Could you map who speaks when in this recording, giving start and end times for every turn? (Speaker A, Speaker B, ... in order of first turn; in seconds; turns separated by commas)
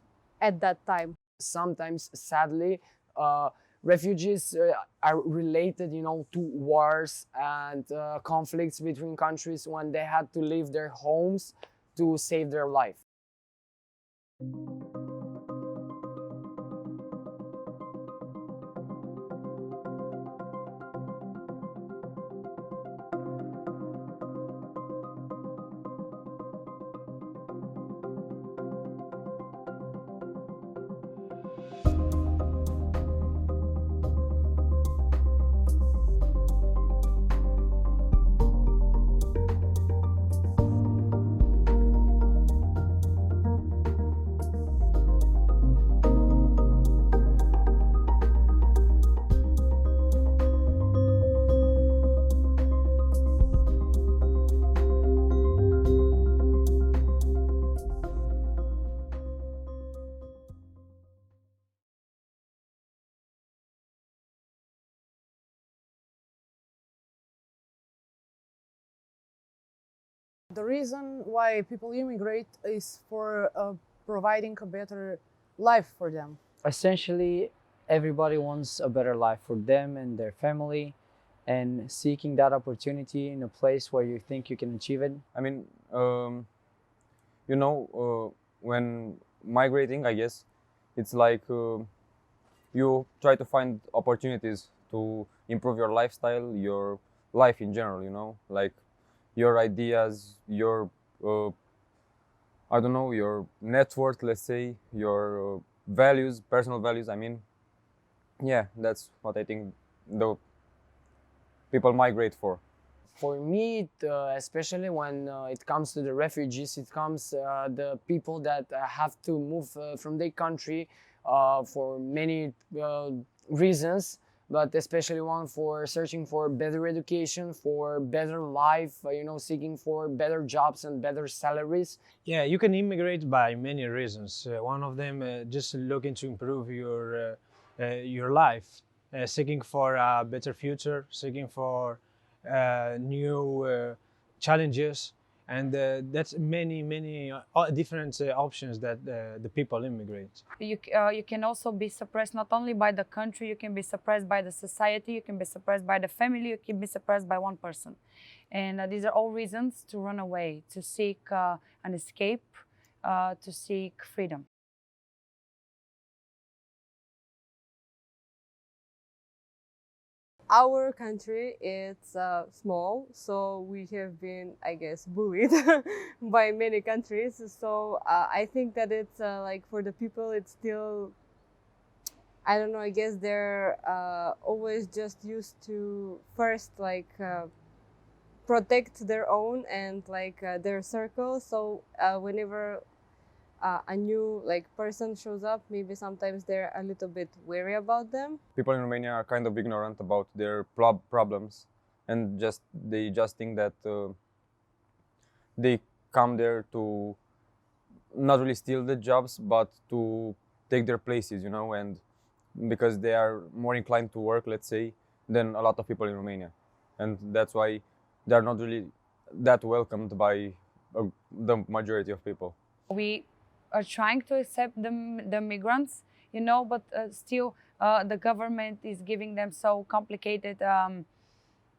Speaker A: 0.4-1.2, Speaker B: 1.4-13.0, Speaker C: 70.5-76.4, Speaker D: 76.6-81.0, Speaker D: 81.5-85.2, Speaker E: 85.3-86.5, Speaker E: 87.5-90.5, Speaker E: 91.0-91.9, Speaker E: 92.7-98.8, Speaker E: 99.3-101.5, Speaker E: 102.7-107.4, Speaker E: 108.4-110.4, Speaker E: 111.7-112.6, Speaker B: 113.1-132.0, Speaker F: 132.2-150.4, Speaker G: 150.6-158.0, Speaker G: 158.5-164.4, Speaker A: 170.5-181.1, Speaker A: 182.4-187.5, Speaker A: 188.5-192.8, Speaker A: 193.6-198.4, Speaker E: 198.6-204.2, Speaker E: 205.6-207.2, Speaker E: 208.1-212.0, Speaker E: 212.6-222.6, Speaker G: 222.9-231.1